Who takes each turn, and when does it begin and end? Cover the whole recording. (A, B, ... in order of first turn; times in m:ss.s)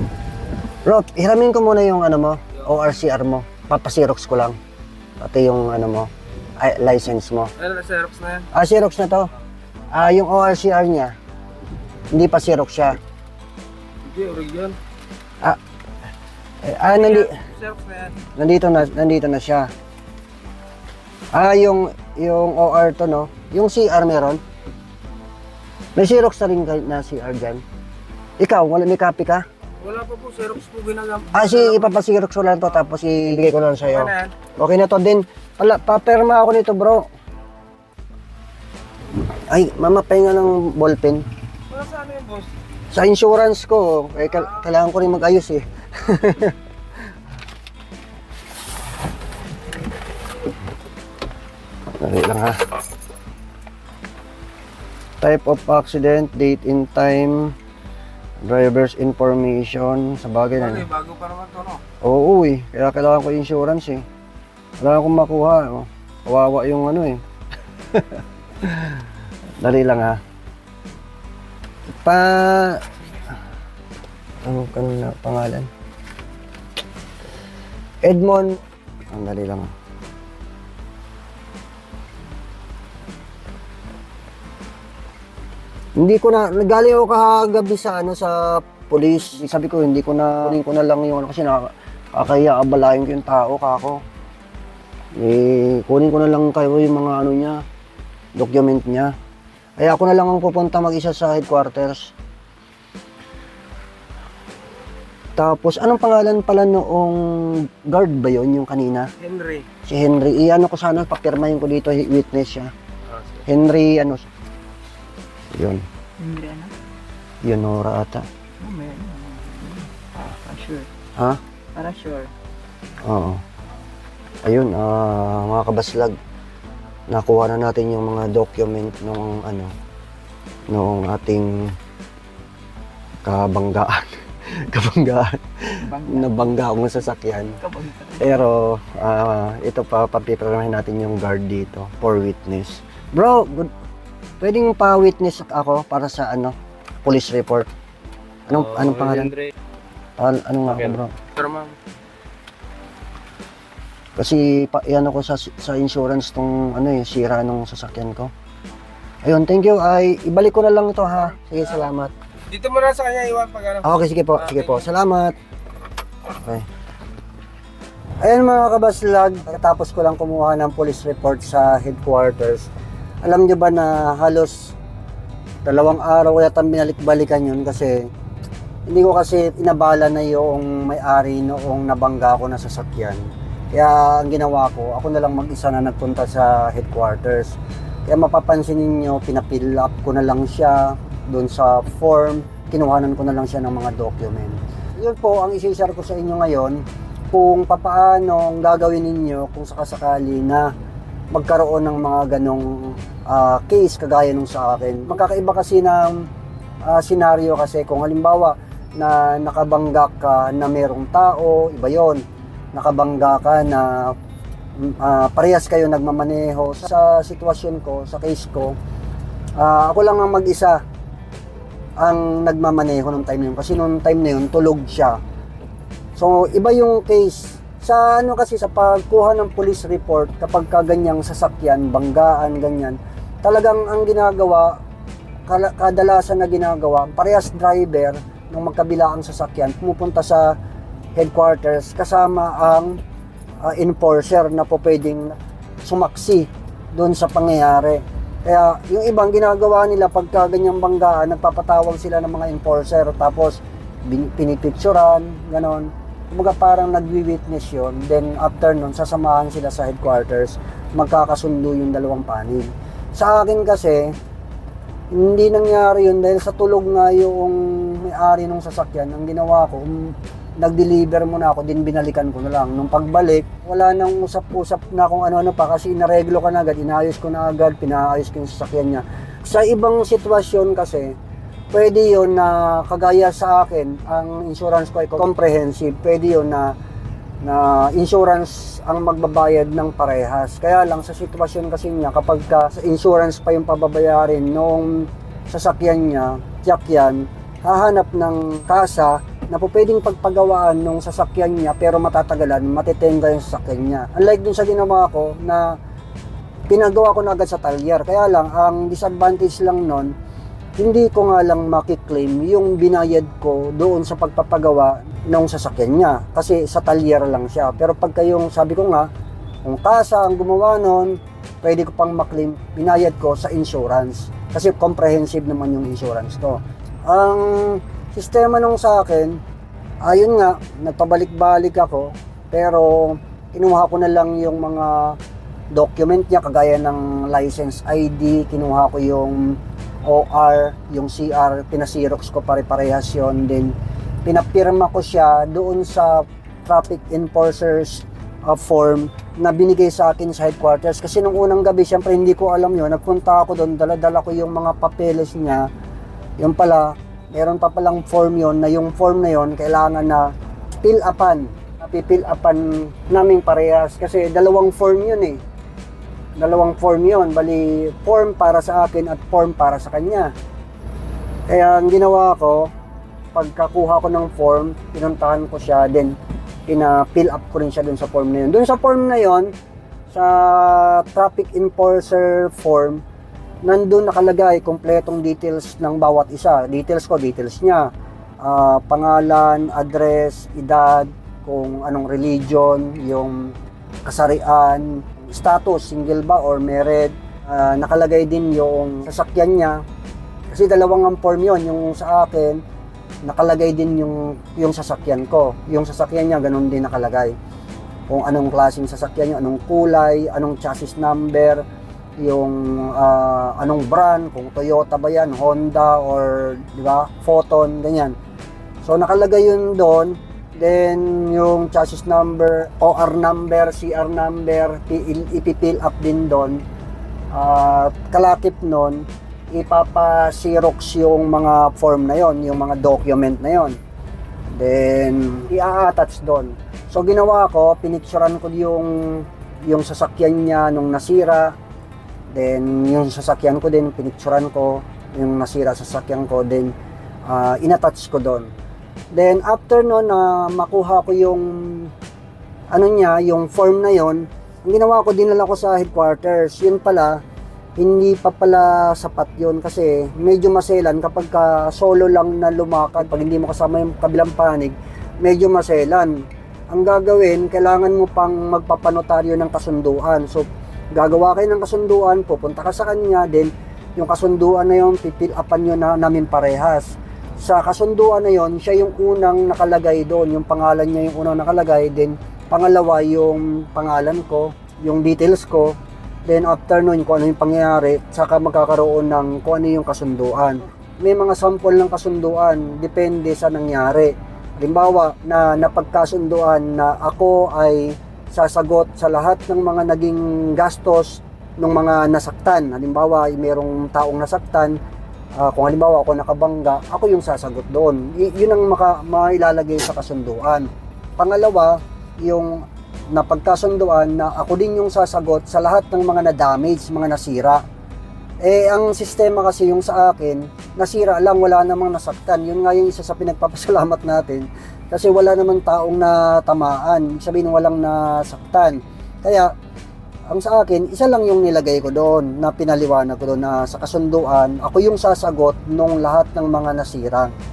0:00.8-0:04.6 A
0:05.2-0:07.5 A
0:07.6-0:08.4 B
0:08.5-0:09.3 A
0:09.9-0:11.1 A
0:12.1-0:13.0 A
0:14.0-0:14.8 B
0:16.6-0:17.4 A
0:17.0-0:18.1 B
0:18.3-0:19.7 A
0:21.3-0:24.4 A
0:26.0-0:27.6 A
0:28.4-0:29.4 A
0:29.8-0:31.6 B
0:31.3-0:37.1 A
0:39.5-0:41.2 A
0:41.7-0:42.4 B
0:42.9-0:46.6 A
0:52.0-0:52.6 A
0:55.2-0:57.5 A
0:58.4-1:00.9 A
1:00.8-1:01.8 B
1:02.0-1:04.0 A
1:04.8-1:07.2 A
1:07.9-1:09.0 A
1:09.6-1:10.2 A
1:12.0-1:12.8 A
1:14.4-1:15.7 A
1:18.0-1:18.6 A
1:19.1-1:19.7 A
1:26.0-1:34.0 A
1:35.2-1:37.6 A
1:38.4-1:39.1 A
1:39.8-1:42.1 A
1:45.4-1:49.1 A
1:49.2-1:49.7 B
1:49.8-1:52.7 A
1:53.4-1:54.3 A
1:55.5-1:55.8 A
1:56.2-1:56.7 C
1:57.4-1:58.2 A
1:58.6-2:00.9 C
2:01.7-2:02.3 C
2:03.0-2:03.4 A
2:04.4-2:06.2 A
2:07.1-2:09.7 A
2:10.7-2:11.7 A
2:13.2-2:17.6 A
2:15.8-2:16.5 C
2:17.6-2:18.4 C
2:18.2-2:23.7 A
2:24.4-2:27.7 A
2:28.5-2:29.4 A
2:28.8-2:29.5 B
2:30.2-2:31.1 A
2:31.4-2:31.7 B
2:34.2-2:38.3 A
2:39.2-2:42.1 A
2:42.5-2:43.8 B
2:43.8-2:45.4 A
2:46.3-2:46.6 A
2:48.2-2:52.7 A
2:53.2-2:54.7 A
2:55.6-2:58.1 A
2:58.9-3:20.7 A
3:21.3-3:26.2 A
3:26.8-3:32.2 A
3:32.7-3:34.1 A
3:34.8-3:38.7 A
3:39.6-3:40.8 A
3:42.0-3:45.2 A
3:46.2-3:54.8 A
3:55.5-4:00.5 A
4:01.2-4:03.0 A
4:03.6-4:24.1 A
4:25.1-4:41.1 A
4:41.7-4:46.7 A
4:47.4-5:05.8 A
5:06.7-5:10.1 A
5:10.8-5:19.1 A
5:19.6-5:29.4 A
5:30.0-5:35.2 A
5:35.7-5:43.7 A
5:44.2-5:55.7 A
5:56.4-6:00.3 A
6:00.8-6:05.4 A
6:06.4-6:10.3 A
6:11.5-6:12.7 A
6:13.3-6:16.1 A
6:16.7-6:19.5 A
6:20.1-6:23.0 A
6:23.6-6:27.8 A
6:28.4-6:33.5 A
6:34.0-6:39.8 A
6:40.5-6:42.6 A
6:43.2-6:47.3 A
6:48.1-6:51.6 A
6:52.2-6:58.1 A
6:58.8-7:06.6 A
7:07.3-7:13.8 A
7:14.5-7:21.5 A
7:22.3-7:26.7 A
7:27.3-7:28.5 A
7:29.1-7:31.9 A
7:32.7-7:37.2 A
7:37.8-7:46.2 A
7:46.7-8:24.8 A
8:25.4-8:37.6 A
8:38.4-8:49.5 A
8:50.3-8:57.3 A